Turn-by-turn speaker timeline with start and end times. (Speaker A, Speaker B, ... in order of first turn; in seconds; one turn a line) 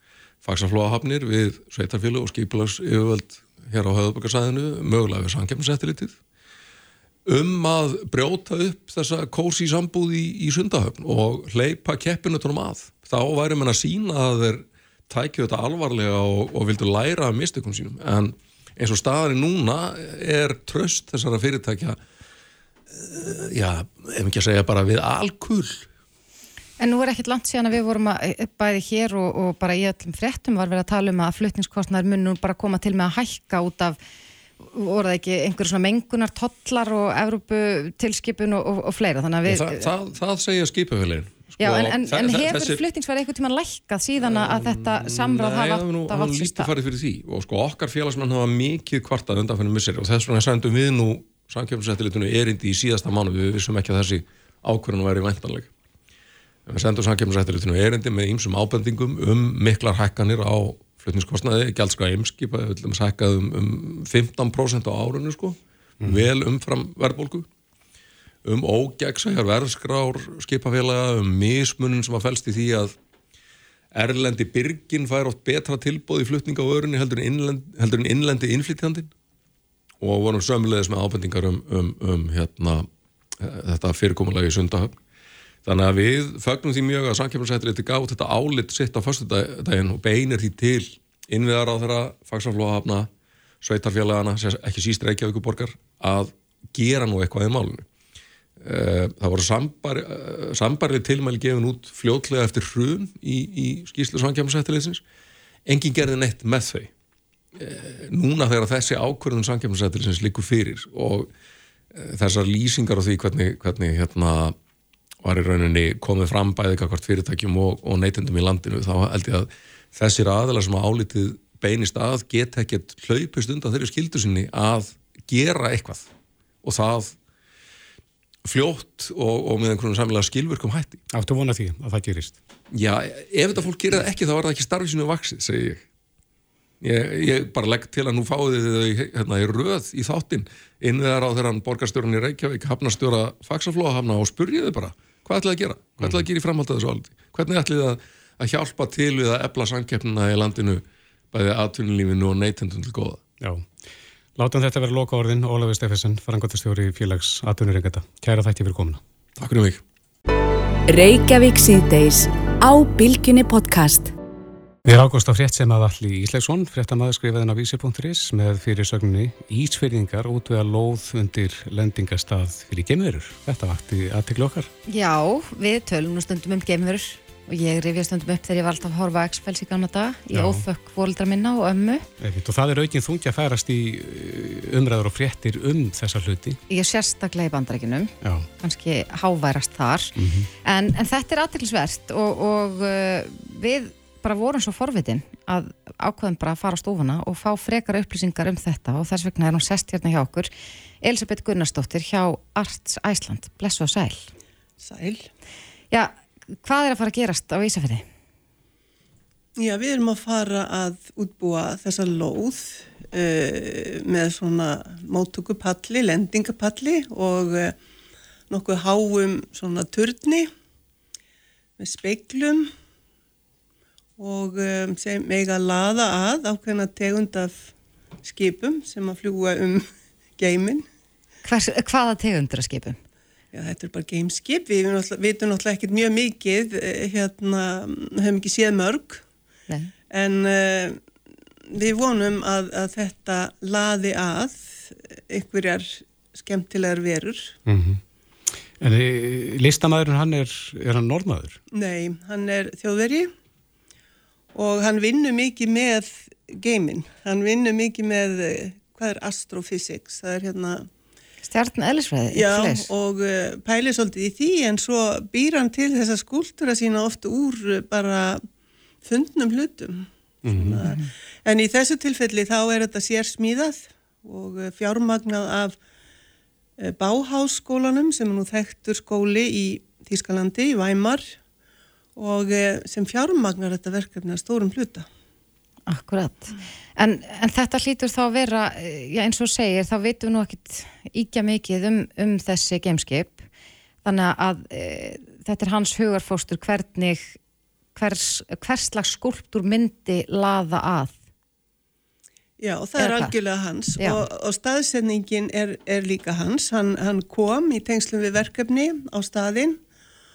Speaker A: 0.4-6.2
Speaker A: 7.3-22.0
Speaker A: 22.9-25.9
Speaker B: 26.8-34.0
Speaker B: 34.6-39.9
Speaker A: 39.5-42.8
Speaker B: 41.6-46.7
Speaker A: 44.2-55.7
Speaker A: 56.7-67.5
Speaker C: 66.0-66.3
Speaker A: 68.5-72.9
Speaker A: 73.9-79.1
Speaker A: 80.0-82.9
Speaker A: 83.4-85.0
Speaker A: 85.7-93.1
Speaker A: 93.6-97.9
Speaker A: 98.6-105.0
Speaker A: 105.7-106.9
Speaker A: 107.6-111.3
Speaker A: 111.9-114.6
Speaker A: 115.2-126.1
Speaker A: 126.6-127.2
Speaker A: 128.5-131.0
Speaker C: 131.1-132.4
Speaker A: 132.7-135.8
Speaker A: 136.8-153.2
Speaker C: 154.4-159.0
Speaker A: 159.4-159.8
Speaker D: 160.9-164.1
Speaker C: 164.9-174.7
Speaker B: 174.9-182.1
Speaker C: 180.3-180.7
Speaker C: 182.2-186.6
Speaker B: 186.7-200.5
Speaker C: 190.2-190.5
Speaker B: 201.0-204.3
Speaker E: 204.8-205.2
Speaker B: 205.9-208.1
Speaker E: 209.6-217.8
Speaker E: 218.5-220.5
Speaker E: 221.8-222.7
Speaker E: 224.2-227.7
Speaker E: 228.2-229.8
Speaker E: 230.4-230.8
Speaker B: 231.4-233.0
Speaker E: 233.5-239.2
Speaker E: 240.1-241.0
Speaker E: 241.7-247.4
Speaker C: 247.7-248.0
Speaker C: 248.8-251.6
Speaker E: 251.7-253.3
Speaker E: 254.6-260.8
Speaker B: 261.4-262.9
Speaker E: 262.3-268.4
Speaker E: 269.1-275.8
Speaker C: 270.5-270.8
Speaker B: 270.8-271.1
Speaker E: 276.8-281.3
Speaker E: 282.2-285.1
Speaker B: 285.9-293.4
Speaker B: 294.0-297.4
Speaker B: 297.9-301.1
Speaker E: 302.6-309.8
Speaker B: 303.0-303.4
Speaker B: 304.0-304.2